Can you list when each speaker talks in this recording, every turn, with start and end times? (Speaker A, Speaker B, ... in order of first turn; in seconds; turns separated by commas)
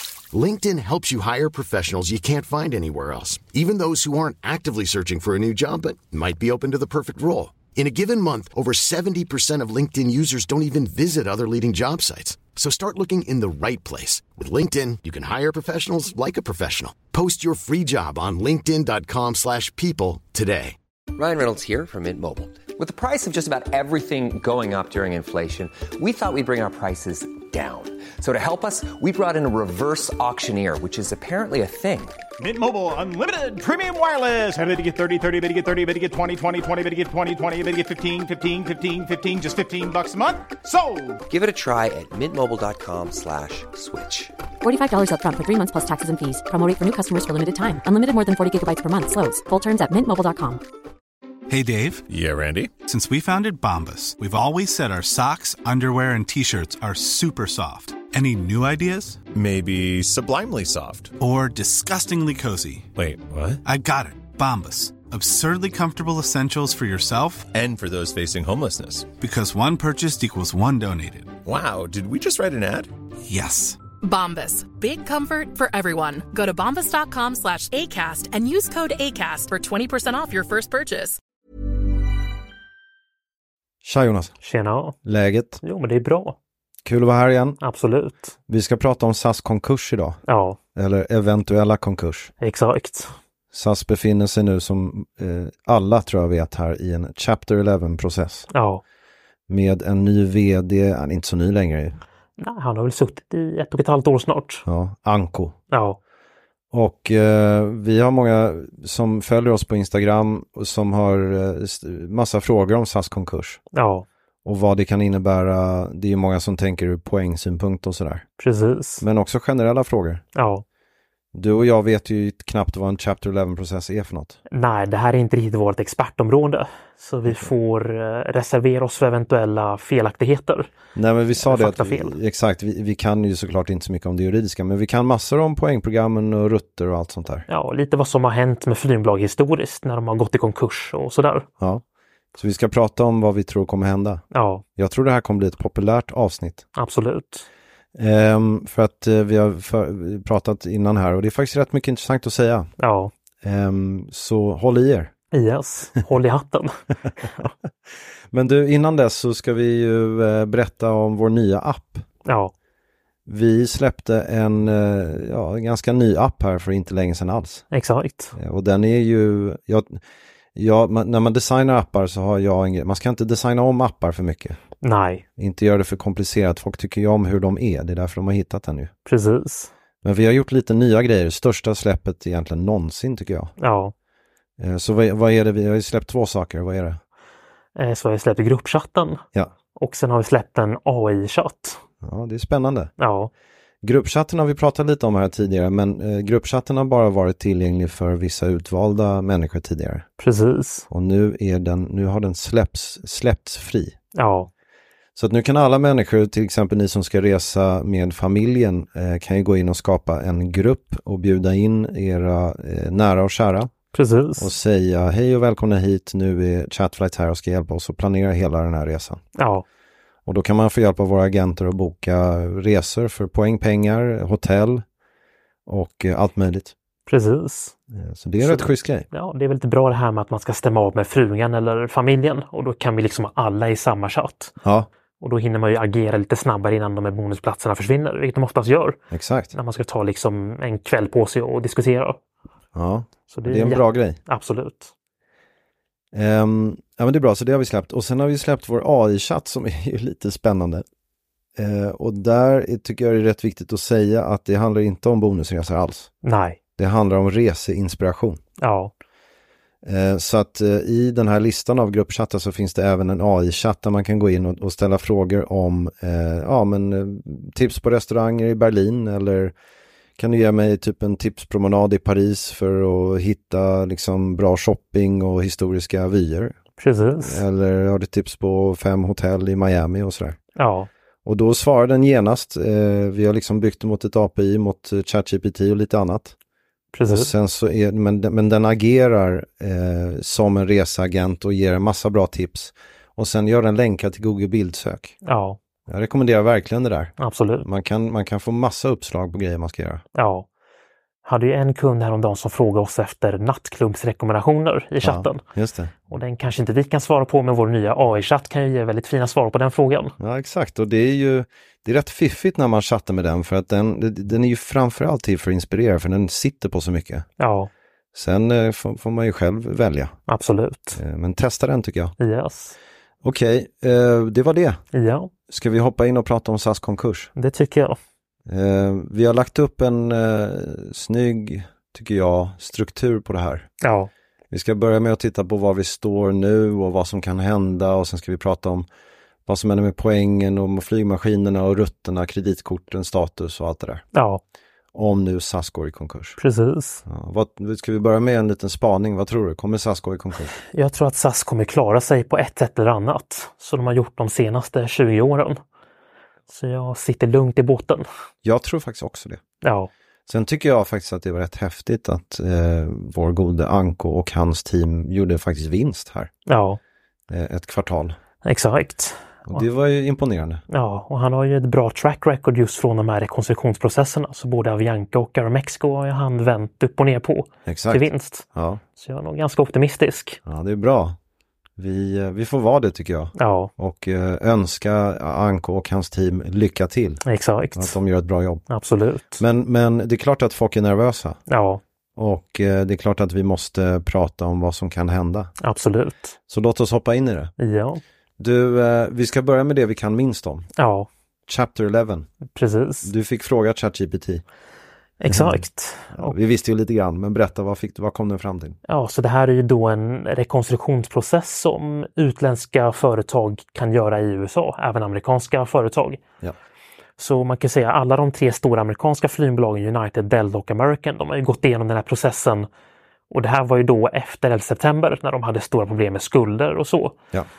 Speaker A: 0.3-20.8, Speaker B: 21.1-32.2, Speaker C: 32.4-41.2, Speaker B: 41.3-44.3, Speaker D: 44.6-50.6, Speaker E: 51.5-52.0, Speaker F: 52.1-52.7, Speaker E: 52.9-59.2, Speaker F: 59.3-61.1, Speaker E: 61.2-62.9, Speaker F: 63.0-63.6, Speaker E: 63.6-67.5, Speaker F: 67.5-69.1, Speaker E: 69.2-71.4, Speaker F: 71.5-72.9, Speaker E: 73.3-73.8, Speaker G: 74.0-81.2, Speaker H: 83.8-84.4, Speaker I: 84.4-85.0, Speaker H: 85.0-85.6, Speaker I: 85.6-86.4, Speaker H: 86.8-87.6, Speaker I: 87.6-88.3, Speaker H: 88.5-90.2, Speaker I: 90.3-90.6, Speaker H: 90.8-92.3, Speaker I: 92.4-93.1, Speaker H: 93.5-98.5, Speaker I: 98.5-98.8, Speaker H: 99.5-102.0, Speaker I: 102.4-104.7, Speaker H: 104.7-105.6, Speaker I: 105.7-106.0, Speaker H: 106.7-113.6, Speaker I: 113.7-114.1, Speaker H: 114.4-118.2, Speaker I: 118.4-119.0, Speaker H: 119.0-120.2, Speaker I: 120.3-120.6, Speaker H: 121.3-124.4, Speaker I: 124.5-130.7, Speaker H: 130.9-137.5, Speaker I: 131.4-132.2, Speaker I: 137.5-141.5, Speaker H: 142.3-144.2, Speaker I: 144.3-144.6, Speaker H: 144.8-146.7, Speaker I: 146.8-147.5, Speaker H: 147.9-152.7, Speaker I: 152.8-153.1, Speaker H: 153.4-155.1, Speaker I: 155.3-157.5, Speaker H: 158.3-162.1, Speaker I: 162.2-162.5, Speaker H: 163.3-167.7, Speaker I: 167.7-168.3, Speaker H: 168.3-170.0, Speaker H: 170.6-174.6, Speaker I: 174.8-175.2, Speaker H: 175.4-178.9, Speaker I: 179.1-179.7, Speaker H: 180.0-183.5, Speaker I: 183.6-183.9, Speaker H: 184.6-187.0, Speaker I: 187.8-189.2, Speaker I: 189.8-191.8, Speaker H: 192.0-192.9, Speaker I: 193.0-193.3, Speaker H: 193.8-200.1, Speaker I: 200.2-200.9, Speaker H: 200.9-204.0, Speaker I: 204.2-204.5, Speaker H: 205.2-213.7, Speaker I: 213.9-214.5, Speaker H: 214.4-219.2, Speaker I: 219.4-219.6, Speaker H: 220.3-224.8, Speaker H: 225.7-226.7, Speaker I: 227.1-227.8, Speaker H: 227.9-229.1, Speaker I: 228.4-234.6, Speaker H: 234.6-234.9, Speaker I: 235.2-239.0, Speaker H: 239.1-239.6, Speaker I: 239.5-242.2, Speaker H: 242.7-244.2, Speaker I: 243.3-244.9, Speaker H: 246.1-250.8, Speaker H: 251.6-256.1, Speaker I: 256.2-256.6, Speaker H: 256.8-258.4, Speaker I: 258.6-258.9, Speaker H: 259.8-269.5, Speaker H: 270.2-276.6, Speaker I: 276.8-277.4, Speaker H: 277.2-280.4, Speaker I: 280.6-280.9, Speaker H: 281.2-286.4, Speaker I: 286.9-287.3, Speaker H: 287.1-295.1, Speaker I: 295.2-295.6, Speaker H: 295.9-300.0, Speaker I: 297.2-297.6, Speaker I: 300.1-300.5, Speaker I: 301.2-305.4, Speaker H: 305.0-306.0, Speaker I: 306.1-310.1, Speaker H: 310.2-317.3, Speaker I: 317.4-317.7, Speaker H: 318.1-320.2, Speaker I: 320.3-321.0, Speaker H: 320.9-322.2, Speaker I: 322.2-322.8, Speaker H: 323.2-324.8, Speaker I: 324.9-325.3, Speaker H: 325.5-327.3, Speaker I: 327.4-328.0, Speaker H: 328.5-333.7, Speaker I: 333.8-334.1, Speaker H: 334.5-338.9, Speaker H: 339.5-344.1, Speaker I: 344.1-344.4, Speaker H: 344.9-346.4, Speaker I: 346.4-347.0, Speaker H: 347.1-350.6, Speaker I: 350.7-355.6, Speaker I: 356.5-358.1, Speaker H: 358.4-359.4, Speaker I: 359.6-359.9, Speaker H: 360.3-366.3, Speaker I: 366.5-366.8, Speaker H: 367.3-368.2, Speaker I: 368.4-369.6, Speaker H: 369.5-370.6, Speaker I: 370.7-380.4, Speaker H: 377.7-378.8, Speaker H: 380.4-381.2, Speaker H: 381.8-387.2, Speaker I: 383.4-383.7, Speaker I: 387.2-388.0, Speaker H: 387.8-388.7, Speaker I: 388.7-389.4, Speaker H: 389.4-391.4, Speaker I: 391.5-391.8, Speaker H: 392.2-395.5, Speaker I: 395.6-396.4, Speaker H: 396.5-397.5, Speaker I: 397.6-398.0, Speaker H: 398.4-400.7, Speaker I: 400.8-401.1, Speaker H: 401.5-402.3, Speaker I: 402.6-403.1, Speaker H: 403.0-404.4, Speaker I: 405.2-406.4, Speaker H: 405.3-408.8, Speaker I: 408.9-416.2, Speaker I: 417.2-422.7, Speaker I: 423.3-427.2